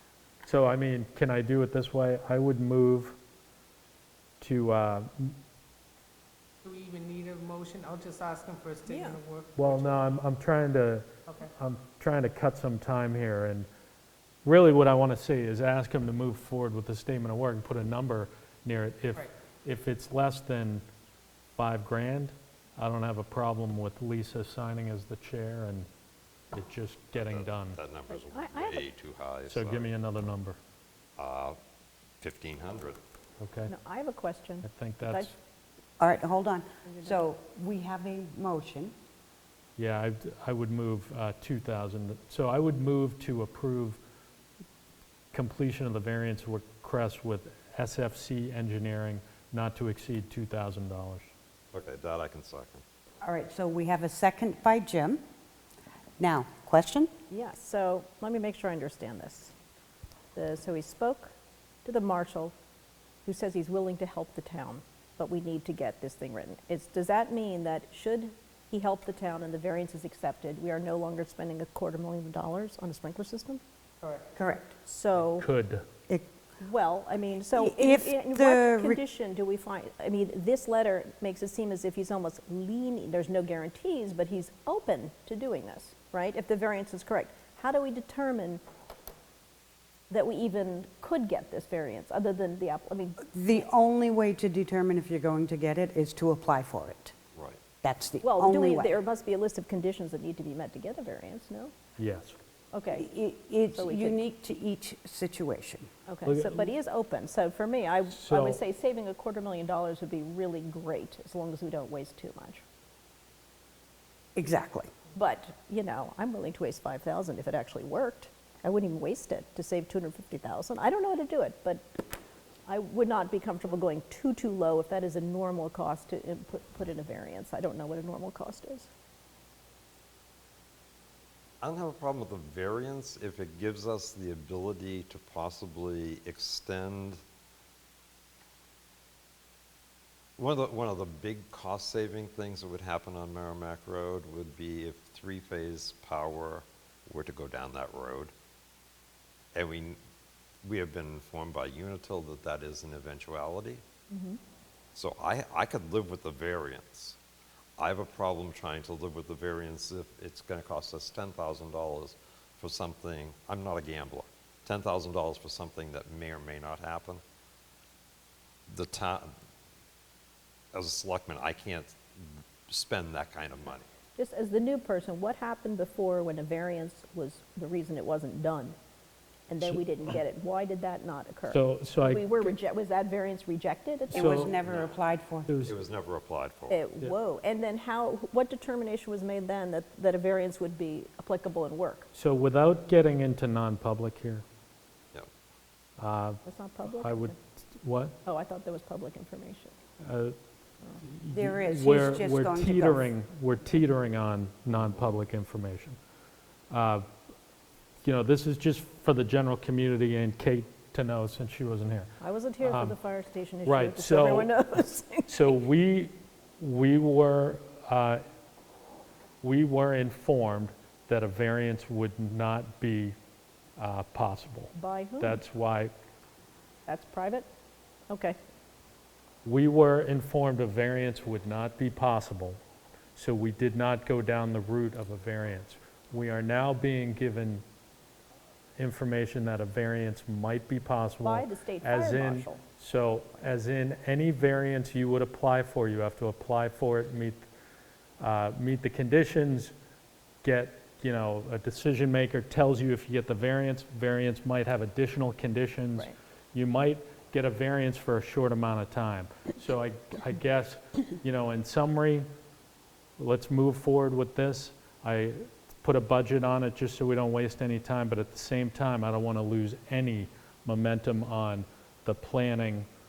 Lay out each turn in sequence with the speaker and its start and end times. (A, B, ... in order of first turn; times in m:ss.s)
0:00.4-0:03.2 A
0:04.4-0:05.4 A
0:06.6-0:10.1 B
0:08.9-0:09.2 C
0:09.6-0:13.7 A
0:14.4-0:20.8 A
0:21.6-0:25.9 A
0:26.5-0:27.8 A
0:27.1-0:29.9 D
0:28.1-0:28.9 C
0:29.5-0:30.6 A
0:31.2-0:31.6 D
0:32.2-0:33.0 D
0:33.4-0:33.7 A
0:33.7-0:35.3 C
0:34.6-0:35.4 A
0:36.0-0:38.9 E
0:36.9-0:37.2 C
0:39.8-0:44.0 A
0:45.3-0:51.3 A
0:51.7-0:52.8 D
0:53.2-0:55.2 E
0:56.2-0:57.1 E
0:57.3-0:59.6 C
1:00.4-1:01.3 C
1:01.8-1:02.6 C
1:03.2-1:13.6 C
1:14.0-1:14.4 B
1:14.4-1:14.8 E
1:14.8-1:15.5 C
1:15.4-1:15.8 A
1:16.6-1:28.6 C
1:17.5-1:19.0 E
1:30.1-1:33.6 C
1:33.2-1:37.2 E
1:37.4-1:37.6 D
1:37.8-1:38.9 E
1:38.2-1:41.7 C
1:42.0-1:42.4 A
1:42.7-1:43.1 C
1:42.9-1:45.9 E
1:43.7-1:44.2 C
1:46.1-1:52.6 C
1:46.3-1:46.7 A
1:48.1-1:48.6 A
1:54.4-1:54.9 E
1:55.2-2:02.0 C
2:02.7-2:08.9 C
2:11.6-2:17.2 D
2:20.4-2:28.3 D
2:29.5-2:30.0 D
2:30.6-2:33.8 D
2:34.1-2:34.4 C
2:35.0-2:37.2 D
2:37.8-2:47.2 D
2:48.7-2:49.3 D
2:50.7-2:53.9 D
2:54.2-2:58.8 C
2:59.5-3:04.5 C
3:01.5-3:02.6 A
3:04.1-3:05.5 E
3:04.1-3:04.5 A
3:04.6-3:05.0 D
3:05.5-3:05.8 A
3:05.6-3:06.8 D
3:06.7-3:12.1 C
3:12.1-3:14.4 A
3:16.0-3:18.2 A
3:16.4-3:17.4 C
3:18.2-3:19.8 C
3:20.0-3:20.4 A
3:21.0-3:26.0 A
3:21.3-3:23.1 E
3:26.7-3:27.1 A
3:28.0-3:32.1 A
3:32.2-3:35.6 C
3:32.6-3:33.0 A
3:33.6-3:34.5 A
3:35.3-3:38.2 A
3:39.4-3:43.2 A
3:43.8-3:45.9 A
3:44.8-3:45.4 C
3:46.9-3:47.5 C
3:48.1-3:48.4 C
3:49.4-3:52.6 A
3:53.2-3:57.6 A
3:58.8-4:07.5 A
4:01.2-4:02.6 C
4:08.2-4:09.7 A
4:10.4-4:22.3 A
4:23.2-4:32.9 A